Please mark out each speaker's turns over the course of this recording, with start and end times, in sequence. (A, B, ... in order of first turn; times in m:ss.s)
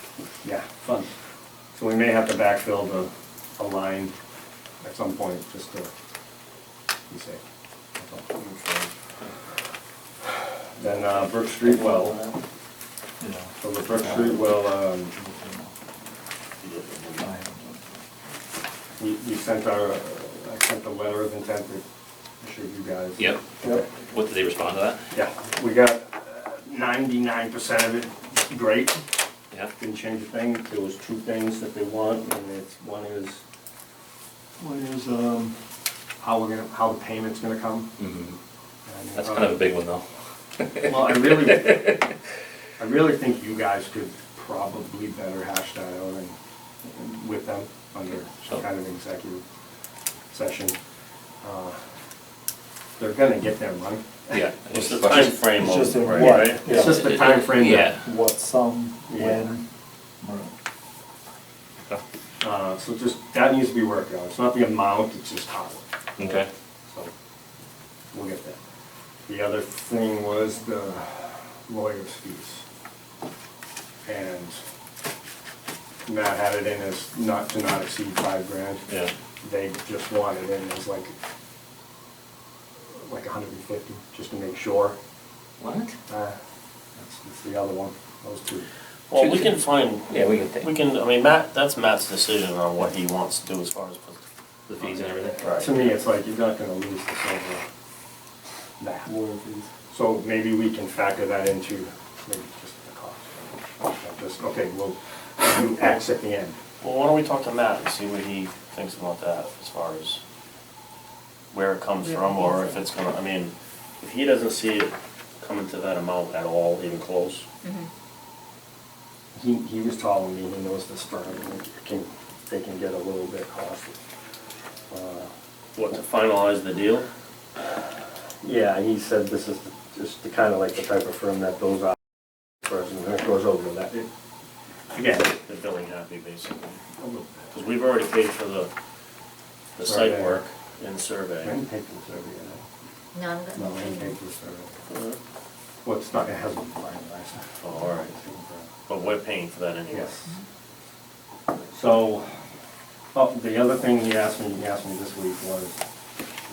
0:00.4-0:01.1 A
0:01.7-0:04.1 A
0:04.8-0:05.9 A
0:07.1-0:07.4 A
0:08.0-0:08.3 A
0:08.3-0:08.9 B
0:10.8-0:12.2 A
0:11.8-0:12.2 B
0:13.2-0:13.5 C
0:13.6-0:15.1 A
0:15.2-0:15.7 C
0:16.6-0:17.2 B
0:17.2-0:17.8 C
0:19.0-0:21.8 A
0:22.4-0:23.9 A
0:23.2-0:25.1 D
0:25.1-0:29.0 A
0:29.8-0:33.4 A
0:34.6-0:35.5 A
0:36.2-0:37.9 A
0:38.0-0:38.4 D
0:38.8-0:39.6 A
0:39.2-0:40.0 D
0:40.6-0:41.8 D
0:40.8-0:42.0 A
0:42.8-0:49.4 A
0:50.3-0:50.8 A
0:51.4-0:51.8 A
0:53.0-0:54.4 A
0:54.3-0:55.3 D
0:54.7-0:56.6 B
0:55.6-0:57.0 C
0:56.2-0:58.0 A
0:56.6-0:58.0 D
0:58.0-0:59.6 C
0:59.1-0:59.5 A
1:00.2-1:00.5 C
1:02.4-1:05.8 A
1:06.2-1:06.5 D
1:08.1-1:08.6 A
1:09.3-1:12.6 A
1:14.0-1:14.6 A
1:16.0-1:18.8 A
1:19.4-1:21.1 A
1:22.9-1:25.0 A
1:25.6-1:26.0 D
1:26.1-1:26.4 A
1:27.0-1:28.7 A
1:29.1-1:34.2 B
1:29.1-1:30.7 D
1:34.7-1:36.0 D
1:35.4-1:35.7 B
1:35.5-1:37.6 A
1:38.8-1:39.1 A
1:39.1-1:39.7 C
1:39.9-1:46.6 A
1:46.8-1:50.2 B
1:51.5-1:57.4 B
1:52.0-1:52.8 E
1:57.6-1:57.9 E
1:59.3-2:04.0 A
2:04.9-2:05.3 A
2:05.7-2:07.1 B
2:08.4-2:12.0 A
2:12.6-2:14.1 A
2:14.9-2:15.4 A
2:15.4-2:16.8 B
2:17.0-2:17.5 A
2:17.5-2:18.7 B
2:19.8-2:21.5 B
2:19.8-2:20.4 A
2:21.4-2:22.6 A
2:23.1-2:24.2 E
2:23.5-2:24.7 A
2:24.9-2:25.2 B
2:25.8-2:28.7 A
2:27.6-2:28.1 B
2:28.9-2:30.1 B
2:29.9-2:30.3 A
2:31.7-2:32.3 A
2:33.1-2:35.8 A